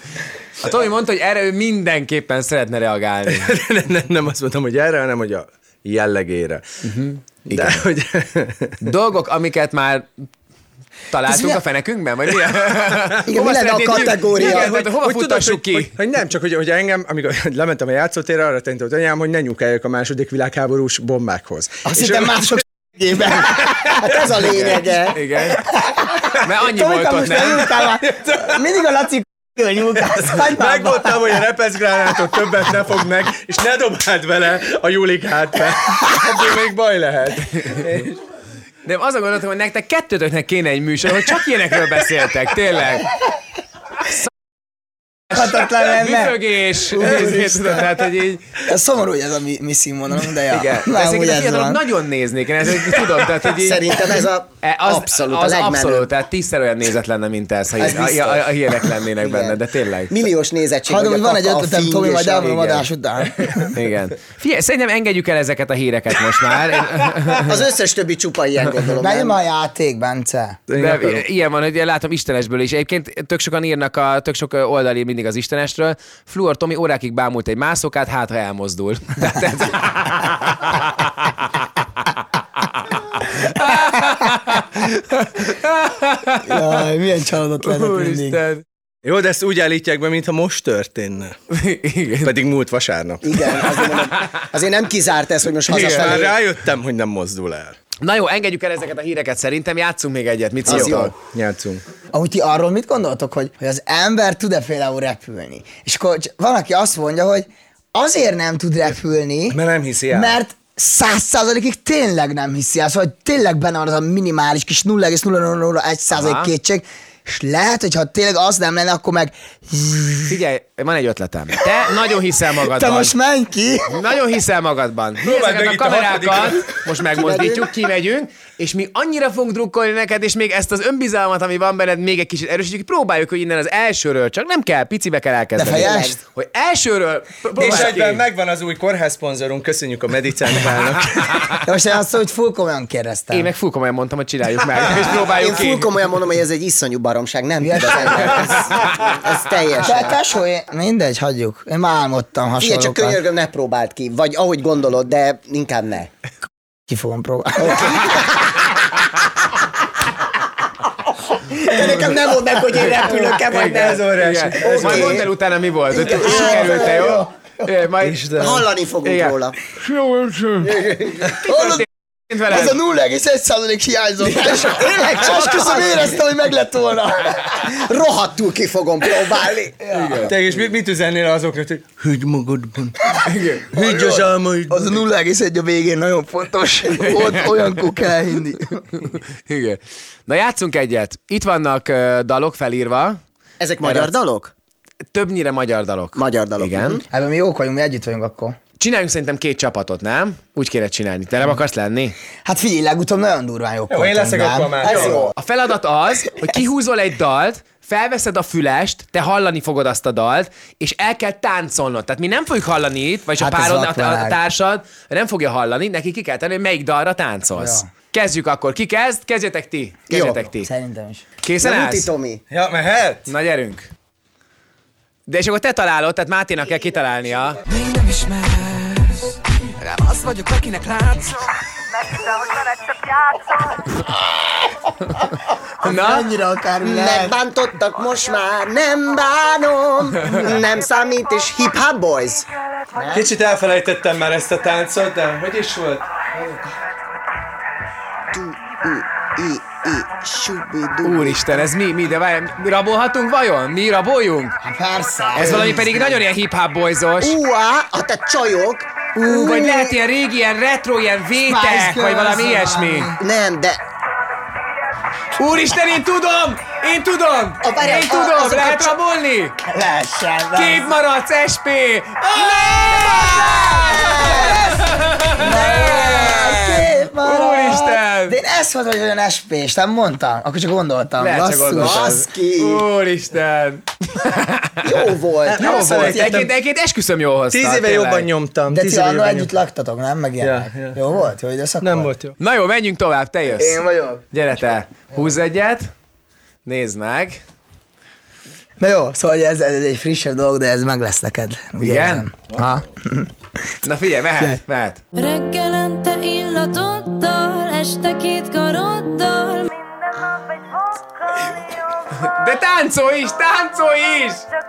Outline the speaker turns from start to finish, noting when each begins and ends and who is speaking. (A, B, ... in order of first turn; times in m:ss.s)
0:00.6-0:03.5 A
0:03.3-0:06.6 B
0:06.8-0:07.8 A
0:07.5-0:08.9 B
0:08.8-0:10.2 A
0:11.1-0:15.9 A
0:13.3-0:14.7 C
0:14.3-0:22.6 B
0:21.9-0:24.0 D
0:23.3-0:24.8 B
0:24.0-0:25.2 C
0:25.1-0:25.6 A
0:25.7-0:31.4 D
0:26.4-0:27.8 A
0:28.2-0:28.5 B
0:30.0-0:38.1 B
0:37.5-0:37.8 A
0:38.8-0:43.1 A
0:45.3-0:47.8 D
0:45.9-0:48.4 A
0:47.1-0:47.8 B
0:48.7-0:51.8 D
0:50.5-0:54.1 A
0:53.5-0:56.1 C
0:54.6-1:00.1 A
0:57.8-0:59.6 C
1:00.1-1:02.6 C
1:00.9-1:03.7 D
1:02.4-1:02.8 A
1:03.7-1:07.5 A
1:07.4-1:09.4 C
1:09.0-1:10.6 D
1:10.7-1:11.2 B
1:10.8-1:21.4 A
1:22.6-1:26.8 A
1:26.4-1:28.4 D
1:27.6-1:28.6 A
1:29.0-1:31.4 B
1:31.5-1:32.3 A
1:32.2-1:33.9 B
1:33.2-1:36.4 C
1:35.7-1:37.8 B
1:35.7-1:36.1 A
1:38.0-1:41.1 A
1:40.6-1:41.1 C
1:40.6-1:41.8 B
1:42.1-1:49.6 D
1:49.5-1:50.4 B
1:50.1-2:00.4 D
1:56.1-1:56.5 A
2:00.3-2:03.1 A
2:02.6-2:03.9 D
2:03.9-2:18.2 A
2:05.2-2:06.8 B
2:15.6-2:16.2 D
2:15.8-2:16.2 C
2:17.6-2:21.6 B
2:21.6-2:23.5 D
2:23.3-2:25.9 A
2:25.4-2:30.2 C
2:27.6-2:28.7 D
2:29.8-2:33.2 D
2:32.6-2:36.1 C
2:36.9-2:38.2 D
2:41.5-2:45.2 C
2:42.8-2:48.2 A
2:43.0-2:45.3 B
2:45.9-2:47.3 D
2:46.0-2:47.0 C
2:46.2-2:46.8 B
2:48.0-2:48.7 B
2:48.4-2:49.6 C
2:49.0-2:49.3 A
2:49.9-2:50.7 A
2:50.6-2:51.3 C
2:51.4-2:51.8 D
2:51.4-2:52.8 A
2:52.4-2:57.7 D
2:54.3-2:56.2 C
2:55.2-2:55.8 B
2:57.6-2:59.8 C
2:59.8-3:00.3 D
2:59.9-3:00.3 A
3:00.2-3:05.0 B
3:03.2-3:03.7 A
3:03.8-3:08.8 D
3:07.0-3:07.7 A
3:09.0-3:13.2 A
3:13.6-3:14.5 C
3:13.8-3:14.1 A
3:15.1-3:17.0 A
3:16.1-3:17.0 C
3:17.1-3:18.6 D
3:18.8-3:22.1 A
3:22.4-3:25.3 D
3:23.9-3:25.3 B
3:24.8-3:25.3 C
3:25.4-3:40.7 A
3:33.4-3:34.4 D
3:37.5-3:37.9 D
3:40.1-3:40.4 C
3:40.6-3:41.2 D
3:41.4-3:42.1 A
3:41.6-3:42.4 C
3:42.5-3:43.3 B
3:43.3-3:43.9 A
3:45.3-3:47.6 A
3:47.6-3:51.5 E
3:55.8-3:56.3 A
3:55.8-3:57.3 D
3:56.8-4:03.3 C
4:03.1-4:06.6 B
4:08.3-4:11.7 C
4:11.0-4:14.6 A
4:14.6-4:16.2 D
4:15.3-4:17.4 A
4:17.2-4:18.9 C
4:19.2-4:23.1 A
4:19.2-4:20.0 D
4:21.4-4:23.2 D
4:23.2-4:23.8 C
4:25.4-4:29.5 A
4:27.6-4:28.9 C
4:29.7-4:30.9 D
4:30.5-4:38.4 A
4:33.2-4:42.2 D
4:33.8-4:34.6 C
4:41.2-4:44.8 A
4:41.7-4:42.8 C
4:44.8-4:46.3 C
4:45.4-4:46.5 B
4:45.6-4:48.3 A
4:47.5-4:49.5 B
4:48.7-4:52.1 D
4:50.4-4:51.0 B
4:51.8-4:52.3 B
4:52.4-4:53.8 A
4:53.6-4:54.3 D
4:54.3-4:55.9 A
4:56.6-4:57.4 A
4:58.8-5:03.3 D
5:01.8-5:02.3 A
5:03.8-5:05.0 A
5:05.1-5:11.7 F
5:12.1-5:14.4 A